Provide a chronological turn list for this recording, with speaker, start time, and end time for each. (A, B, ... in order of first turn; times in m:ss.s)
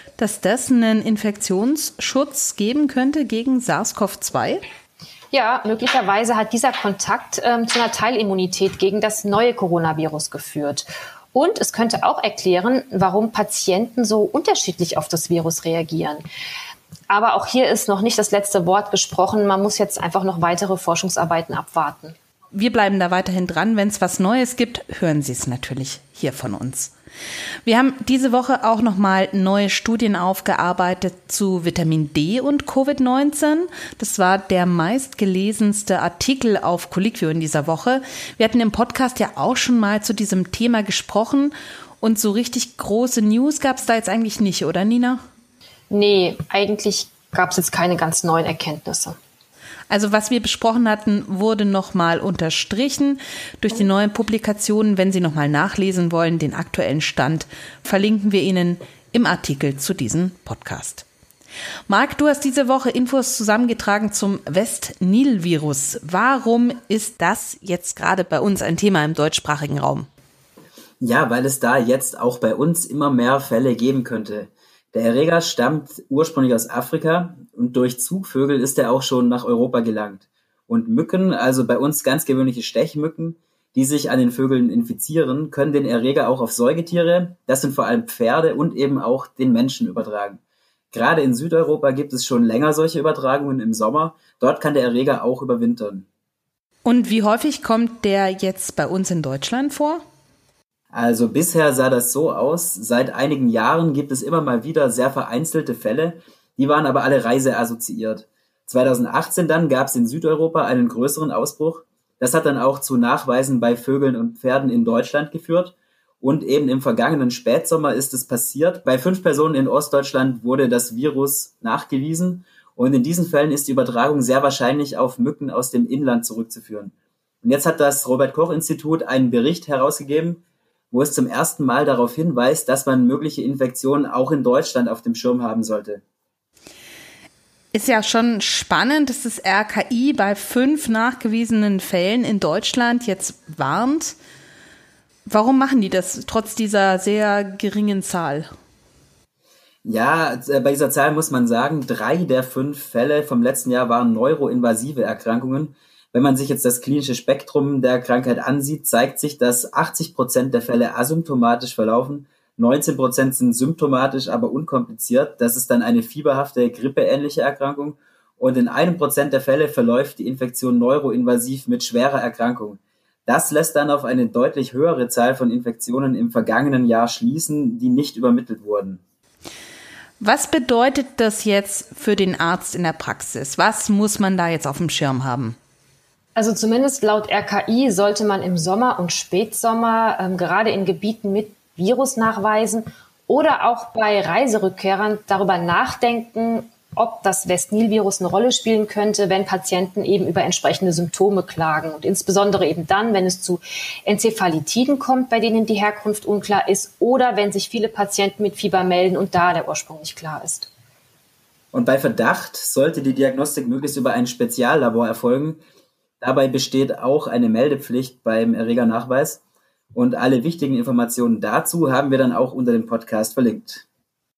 0:00.2-0:04.6 A
0:05.3-0:16.2 B
0:17.1-0:22.2 B
0:22.5-0:26.9 A
0:27.6-0:45.2 A
0:45.9-0:49.2 B
0:49.9-1:01.0 A
1:01.9-1:10.1 A
1:11.0-1:30.4 C
1:30.9-1:36.1 C
1:36.8-1:40.0 A
1:40.9-2:16.0 C
2:17.7-2:24.2 A
2:25.2-2:28.5 A
2:29.8-2:59.0 C
3:00.2-3:05.6 A
3:06.3-3:30.7 B
3:31.7-3:35.6 C
3:36.2-3:39.4 C
3:39.9-3:43.8 C